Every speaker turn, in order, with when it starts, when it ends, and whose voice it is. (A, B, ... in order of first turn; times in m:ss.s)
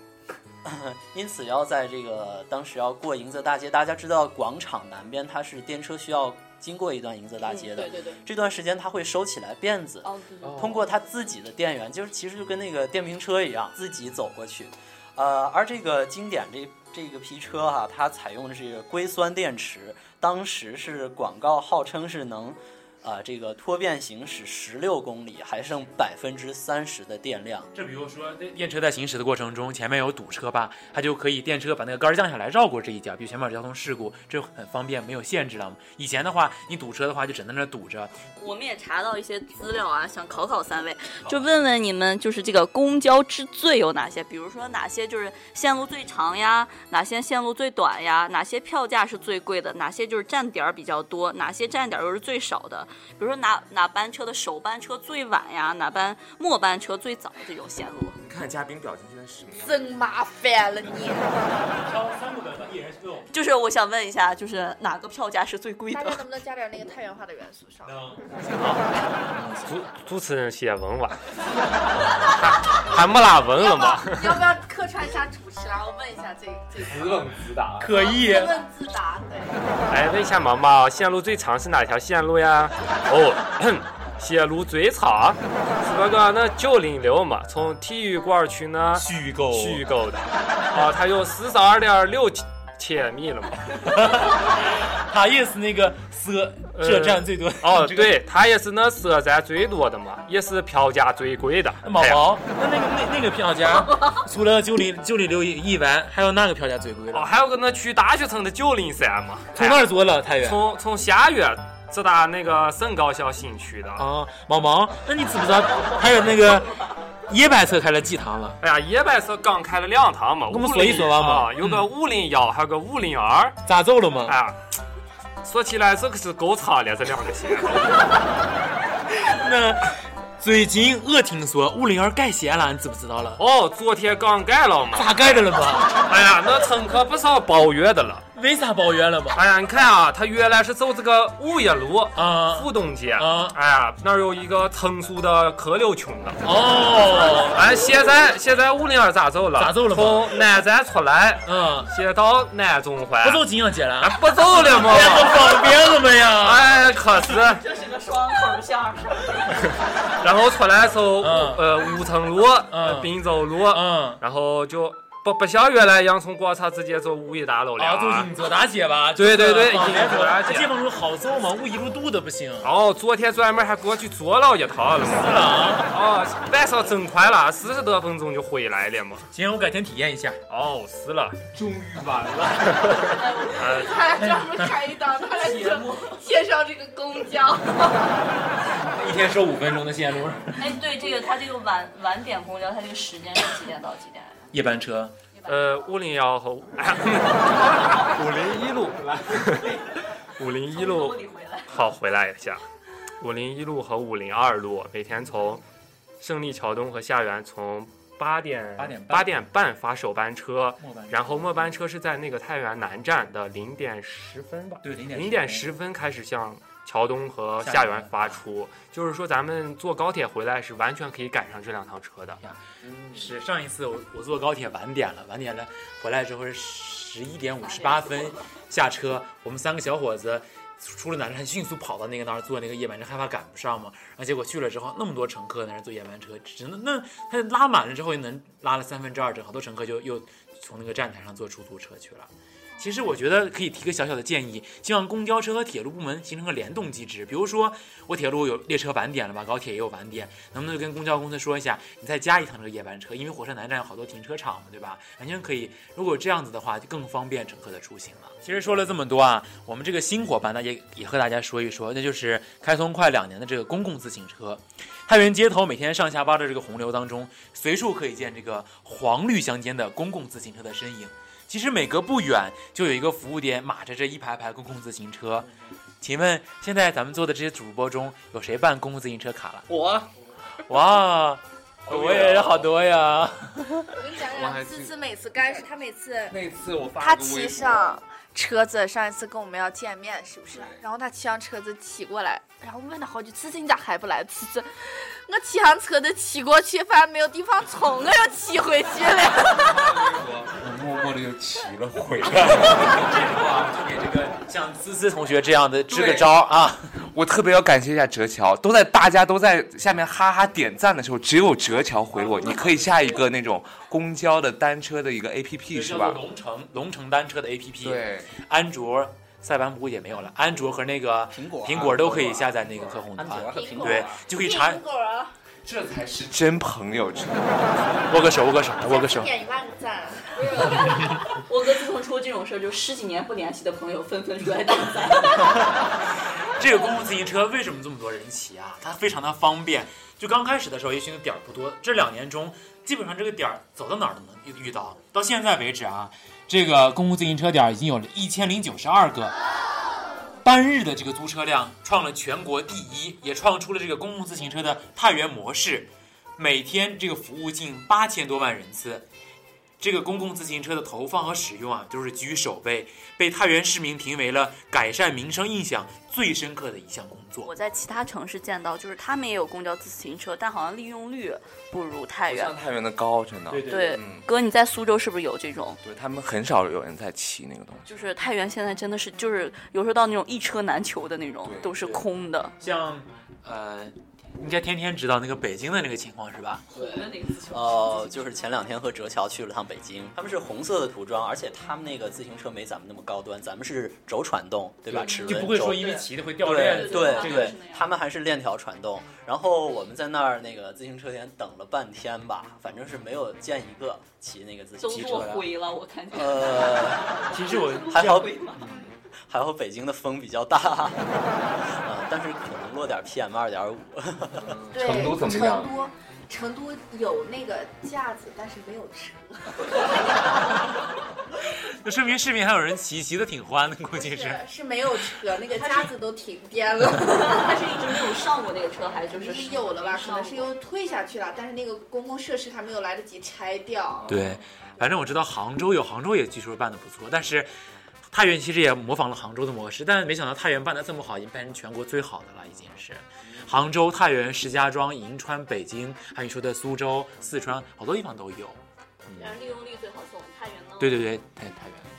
0:00.6-0:27.7 A
0:07.4-0:08.2 B
0:10.0-0:10.7 B
0:10.5-0:10.7 C
0:27.7-0:38.2 D
0:38.4-0:58.2 B
0:58.2-0:59.9 C
0:59.6-1:01.4 E
1:01.8-1:03.3 D
1:03.3-1:06.2 B
1:05.9-1:08.0 E
1:07.8-1:08.9 D
1:09.3-1:09.7 C
1:09.6-1:11.2 F
1:12.4-1:14.4 F
1:13.6-1:19.6 E
1:16.8-1:17.9 C
1:17.8-1:18.6 D
1:19.9-1:33.8 F
1:28.9-1:29.8 D
1:33.8-1:38.2 D
1:36.7-1:42.2 F
1:41.8-1:47.3 D
1:47.1-1:49.9 F
1:49.5-1:50.6 D
1:50.4-1:54.0 F
1:54.0-1:58.6 D
1:58.6-2:03.6 F
2:00.5-2:01.8 D
2:03.6-2:04.4 D
2:04.2-2:04.6 F
2:05.4-2:08.1 F
2:09.1-2:13.4 D
2:13.4-2:15.4 F
2:14.9-2:16.0 D
2:16.0-2:18.2 F
2:18.3-2:19.4 D
2:19.3-2:26.4 F
2:22.1-2:23.6 D
2:26.4-2:27.6 D
2:27.5-2:33.4 F
2:29.6-2:30.4 D
2:31.4-2:31.9 D
2:33.2-2:36.7 D
2:34.0-2:35.5 F
2:36.4-2:37.6 F
2:37.5-2:39.5 B
2:40.2-2:48.3 F
2:41.2-2:41.7 D
2:42.7-2:44.2 D
2:47.8-2:52.7 D
2:49.2-2:50.7 F
2:52.6-2:59.3 F
2:55.0-2:56.0 D
2:59.3-3:00.4 D
3:00.5-3:01.5 F
3:01.5-3:03.0 D
3:03.2-3:03.7 B
3:03.6-3:04.0 F
3:03.7-3:08.0 E
3:04.2-3:04.7 D
3:05.4-3:05.9 D
3:08.6-3:10.8 D
3:10.6-3:14.5 B
3:14.5-3:15.2 D
3:15.4-3:15.7 B
3:15.5-3:19.7 F
3:20.4-3:21.2 F
3:20.7-3:21.7 B
3:21.7-3:22.6 F
3:23.2-3:25.6 F
3:26.2-3:42.4 F
3:28.8-3:29.4 D
3:30.8-3:31.7 D
3:34.8-3:35.7 D
3:37.6-3:38.4 D
3:42.4-4:35.5 D
3:42.8-3:43.2 C
3:47.6-3:48.4 B
4:36.0-4:39.7 D
4:39.7-4:40.1 C
4:40.7-4:43.9 D
4:41.9-4:42.8 C
4:44.0-4:46.4 E
4:44.2-4:44.9 C
4:46.3-4:48.0 C
4:47.0-5:00.1 E
4:50.5-4:50.8 C
4:59.6-5:03.0 C
5:02.3-5:06.9 D
5:05.9-5:06.3 C
5:07.0-5:16.2 C
5:15.7-5:24.8 D
5:17.8-5:18.3 C
5:21.3-5:24.2 A
5:23.5-5:25.3 E
5:25.6-5:28.0 C
5:28.1-5:29.3 D
5:28.8-5:30.6 E
5:30.3-5:35.7 B
5:36.6-5:49.4 D
5:50.4-5:59.0 D
5:59.8-6:07.5 D
6:07.4-6:12.5 B
6:12.2-6:14.2 C
6:13.5-6:14.0 D
6:13.7-6:15.8 B
6:15.8-6:17.9 C
6:17.8-6:22.5 B
6:21.4-6:21.8 C
6:22.6-6:26.6 D
6:26.7-6:28.3 B
6:26.7-6:35.9 A
6:34.9-6:37.6 D
6:34.9-6:37.9 B
6:36.4-6:45.4 A
6:44.8-6:48.6 B
6:44.9-6:45.5 D
6:46.1-6:47.1 A
6:47.3-6:48.8 D
6:47.9-6:48.4 A
6:49.3-6:54.5 A
6:54.3-6:55.7 C
6:54.7-7:00.1 E
7:01.7-7:04.4 D
7:03.9-7:07.5 E
7:05.6-7:05.9 B
7:06.9-7:10.5 B
7:09.1-7:14.1 E
7:14.1-7:17.5 D
7:18.1-7:29.4 D
7:29.2-7:31.1 B
7:30.8-7:31.9 D